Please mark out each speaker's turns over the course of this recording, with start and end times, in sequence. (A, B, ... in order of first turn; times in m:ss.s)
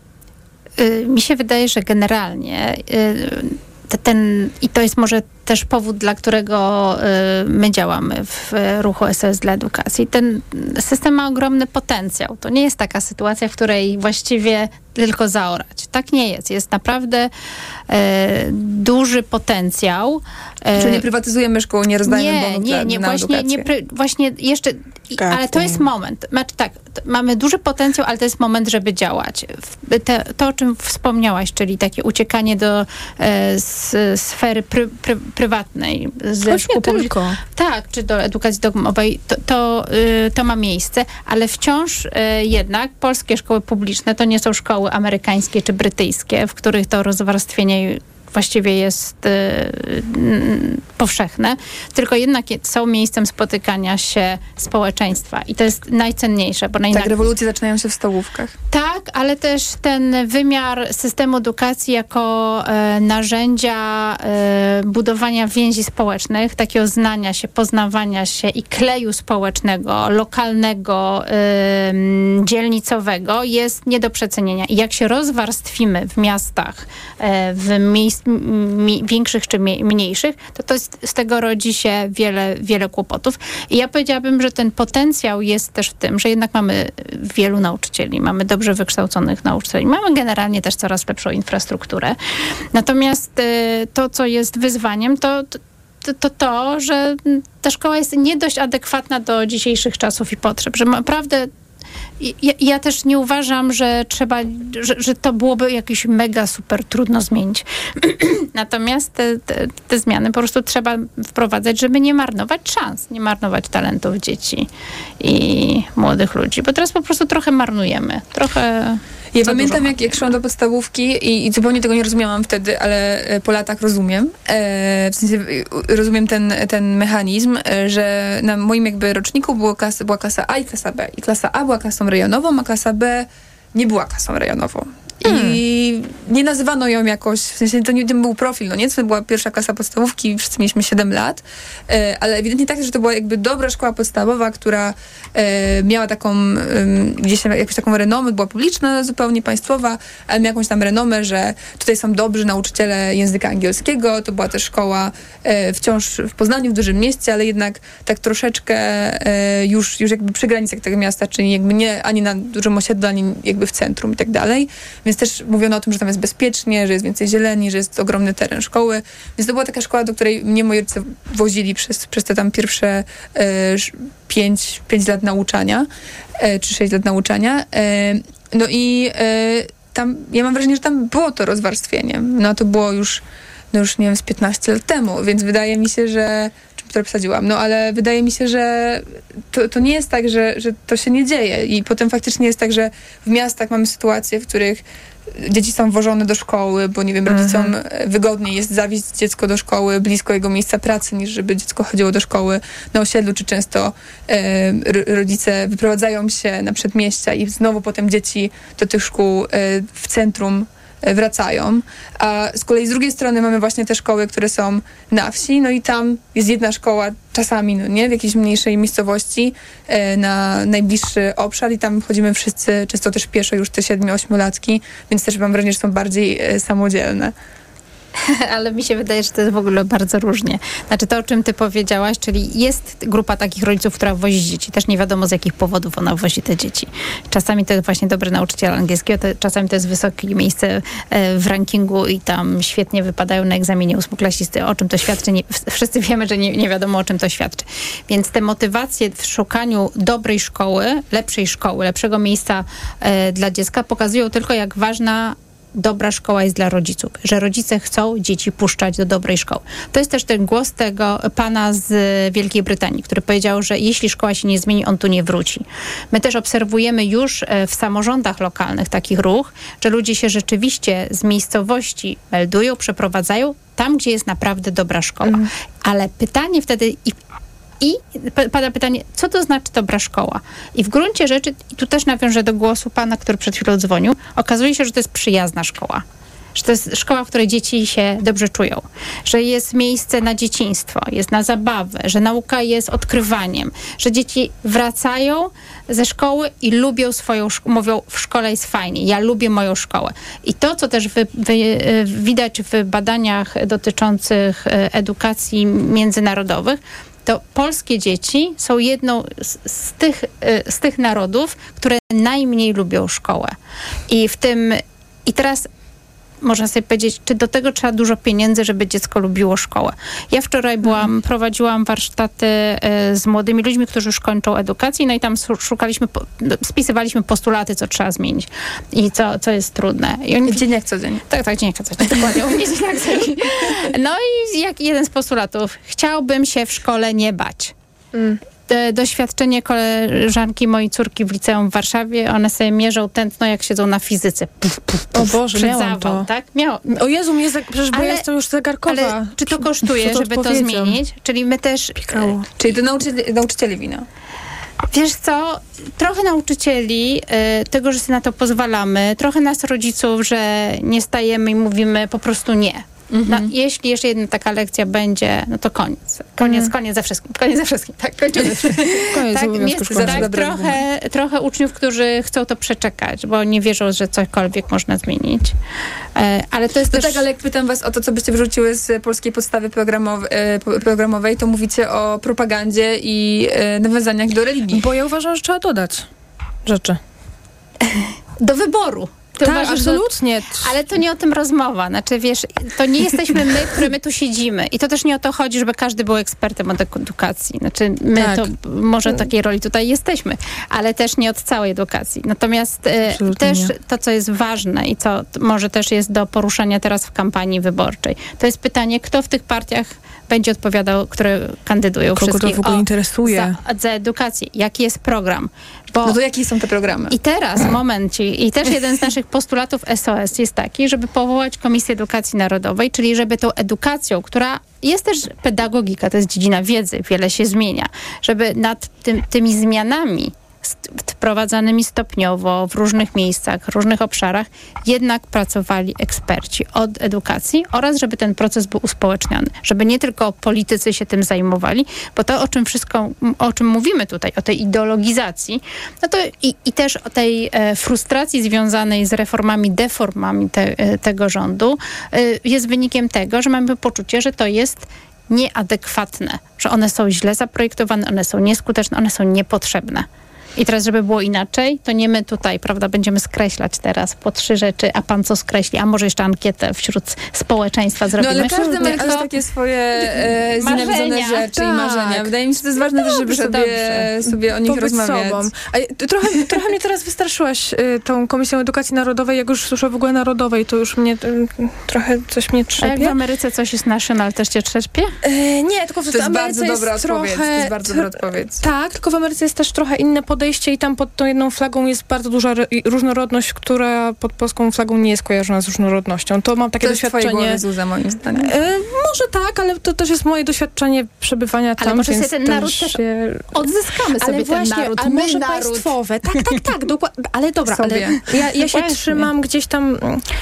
0:00.8-0:17.3 A
0:17.9-0:21.0 A
0:20.8-0:23.7 B
0:22.1-0:57.2 A
0:25.2-0:25.8 C
0:36.4-0:37.4 C
0:56.9-0:58.5 B
0:58.7-1:32.2 A
1:32.7-1:41.5 A
1:42.2-1:54.7 A
1:55.2-2:00.2 A
1:59.4-2:55.9 B
2:15.3-2:15.6 C
2:56.4-3:03.2 B
3:03.7-3:14.8 B
3:15.4-3:47.3 B
3:17.3-3:17.7 C
3:48.2-4:37.2 A
4:37.8-4:46.0 A
4:46.6-5:13.5 A
5:14.1-5:15.7 A
5:16.4-5:30.6 A
5:30.5-5:31.2 B
5:31.3-5:37.7 A
5:38.1-5:38.4 C
5:38.7-5:47.0 A
5:45.1-5:46.3 C
5:46.9-5:51.0 C
5:47.9-5:48.2 A
5:48.9-5:52.4 A
5:52.0-5:52.5 C
5:52.6-5:54.0 B
5:54.9-6:15.5 A
6:03.1-6:03.5 B
6:09.1-6:10.3 C
6:09.9-6:10.8 B
6:16.2-6:17.2 A
6:16.9-6:24.8 B
6:24.7-6:26.1 C
6:26.6-6:27.0 C
6:27.8-6:30.1 A
6:29.4-6:30.8 C
6:30.6-6:56.2 A
6:38.2-6:38.5 C
6:43.1-6:43.7 C
6:52.2-6:53.6 C
6:56.0-6:57.7 B
6:57.1-7:49.1 A
7:48.2-7:55.5 B
7:48.4-7:49.3 C
7:50.6-7:51.5 A
7:51.5-7:52.3 C
7:52.8-8:03.2 C
8:02.8-8:05.2 A
8:05.2-8:17.6 C
8:06.1-8:08.6 B
8:16.8-8:18.5 B
8:18.4-8:23.7 C
8:21.8-8:23.0 A
8:23.5-8:26.8 A
8:24.2-8:30.2 C
8:27.6-8:29.3 A